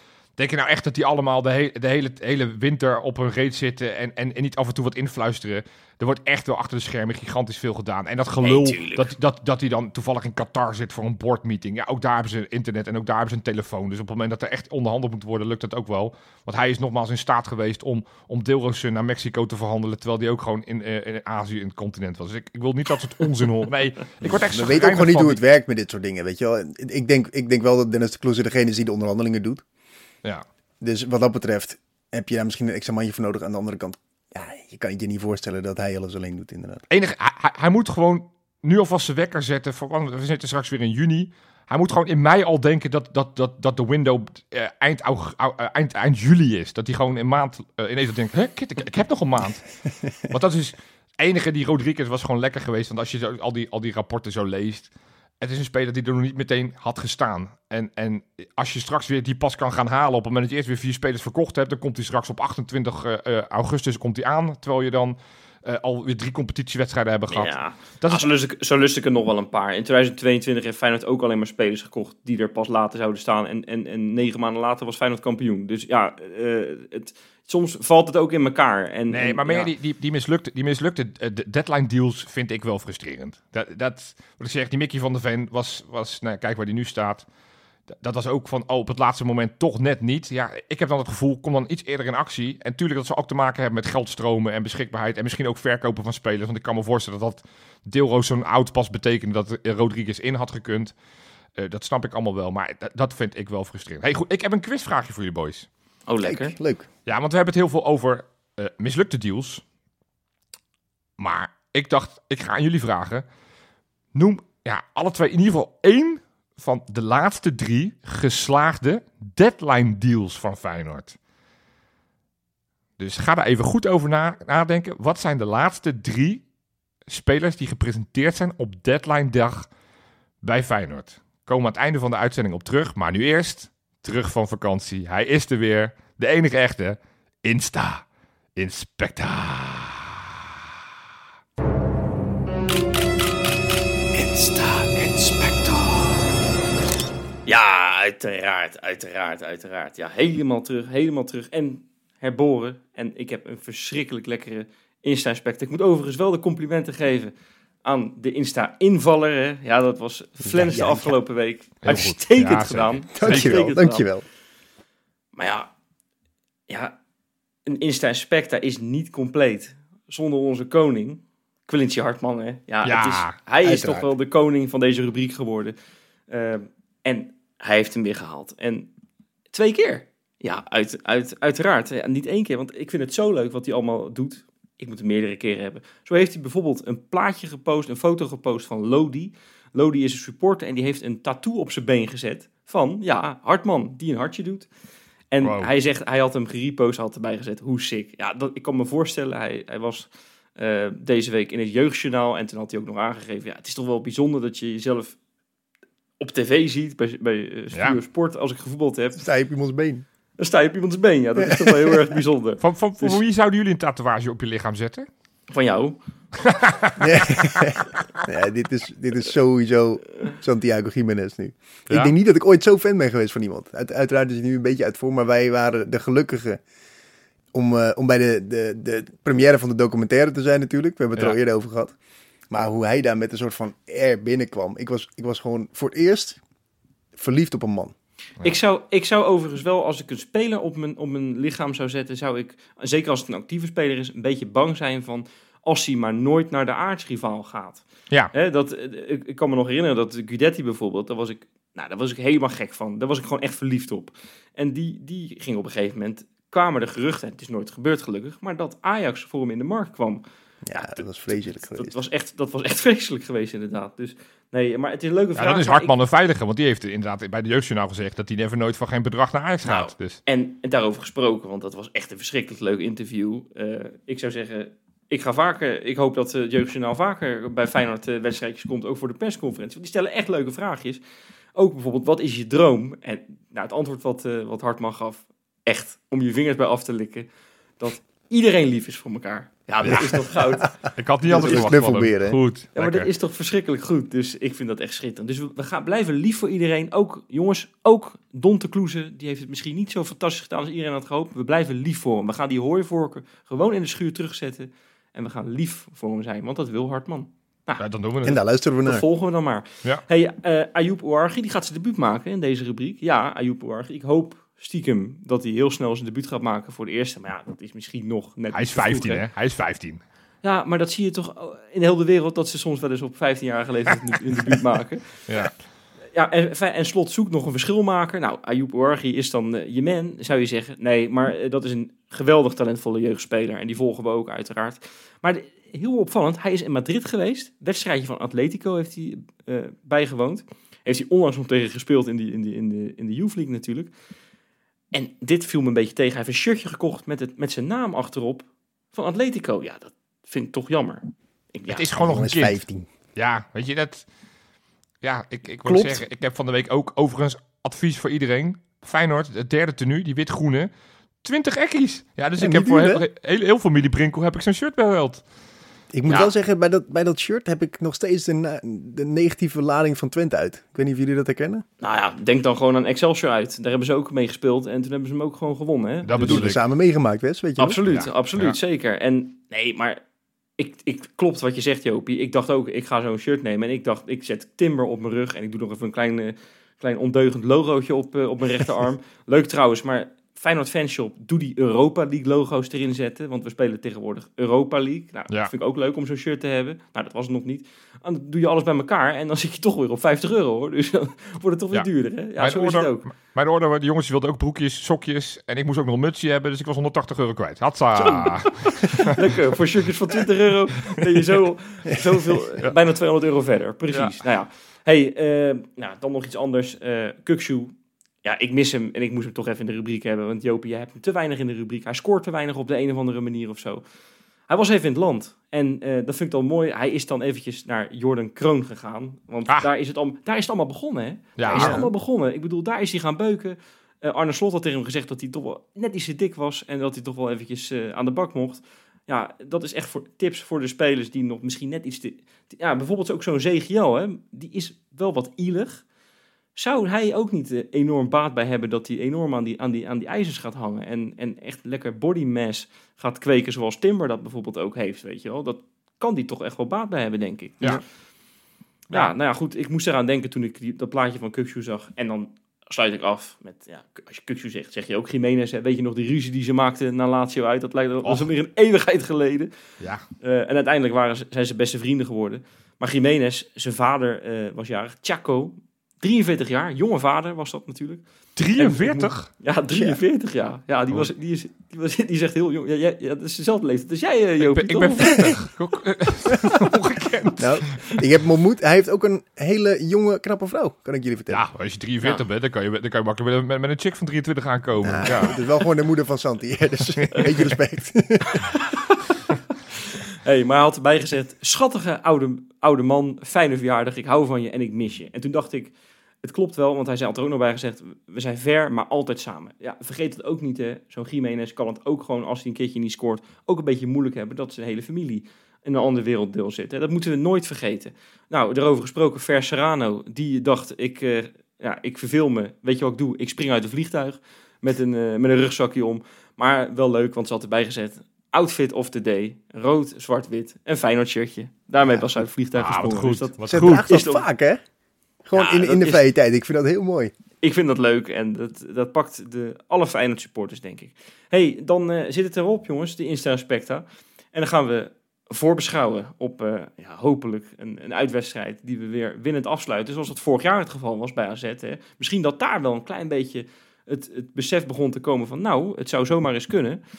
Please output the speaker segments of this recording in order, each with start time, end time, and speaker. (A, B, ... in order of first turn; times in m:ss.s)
0:00.4-0:25.4 A
0:08.4-0:09.1 B
0:24.2-0:29.6 C
0:30.8-0:36.8 C
0:36.9-1:08.3 A
1:07.3-1:19.7 B
1:19.1-1:27.3 A
1:27.9-1:40.9 A
1:41.6-1:45.7 A
1:46.1-1:46.5 B
1:46.2-1:46.9 C
1:47.1-1:49.6 A
1:51.2-1:53.2 A
1:54.2-2:01.2 A
2:03.0-2:06.4 A
2:07.1-2:09.7 A
2:10.4-2:18.0 A
2:18.6-2:20.2 A
2:24.1-2:26.2 B
2:27.5-2:37.3 B
2:37.8-2:44.1 B
2:40.6-2:41.1 C
2:41.8-2:43.7 A
2:43.2-2:44.2 C
2:45.4-2:45.7 B
2:46.7-2:47.0 B
2:47.7-2:55.8 B
2:52.8-2:53.4 A
2:53.6-2:54.1 C
2:56.3-2:58.9 B
2:59.5-3:14.7 B
3:15.3-3:25.2 B
3:15.4-3:15.7 A
3:26.2-3:29.2 B
3:29.2-3:30.0 C
3:30.4-3:33.2 B
3:31.4-3:32.0 C
3:32.6-3:35.1 A
3:35.5-3:36.0 B
3:36.4-3:37.0 A
3:37.0-3:46.6 C
3:47.5-3:52.0 C
3:52.5-3:56.4 C
3:57.1-3:57.9 C
3:58.4-4:25.9 B
4:20.7-4:22.0 C
4:25.4-4:30.2 A
4:29.6-4:41.0 B
4:41.6-4:47.3 B
4:47.8-4:50.7 B
4:49.8-4:50.2 A
4:49.9-4:50.2 C
4:50.9-4:53.1 A
4:51.3-4:51.7 B
4:51.3-4:52.4 C
4:52.8-5:07.8 B
5:07.8-5:08.4 A
5:08.2-5:09.0 C
5:08.8-5:19.3 B
5:18.5-5:20.0 A
5:20.4-5:25.2 B
5:25.3-5:25.5 A
5:26.1-5:43.9 B
5:44.9-5:51.8 B
5:51.7-5:52.6 A
5:52.0-5:52.9 C
5:53.2-5:54.0 A
5:55.0-6:00.7 A
5:55.7-5:56.0 C
6:01.2-6:05.2 A
6:02.4-6:03.0 C
6:05.9-6:11.6 C
6:11.8-6:16.5 B
6:16.0-6:16.6 A
6:16.2-6:17.8 C
6:17.6-6:20.0 B
6:17.9-6:18.6 A
6:20.6-6:43.0 B
6:41.7-6:49.1 A
6:48.0-7:03.8 B
6:53.9-6:54.2 A
7:04.5-7:25.8 B
7:11.4-7:11.9 A
7:11.5-7:11.9 C
7:26.6-7:37.7 B
7:38.9-7:49.5 B
7:50.2-7:58.0 B
7:58.4-7:59.3 A
7:58.6-8:05.4 B
7:59.7-8:00.0 C
8:04.4-8:08.0 A
8:07.4-8:11.4 C
8:11.3-8:15.4 A
8:14.8-8:18.4 C
8:17.0-8:17.4 A
8:18.3-8:19.0 B
8:20.2-8:54.2 B
8:52.6-8:54.1 A
8:53.5-8:54.6 C
8:55.2-8:57.1 C
8:55.4-8:56.0 B
8:57.4-9:16.8 B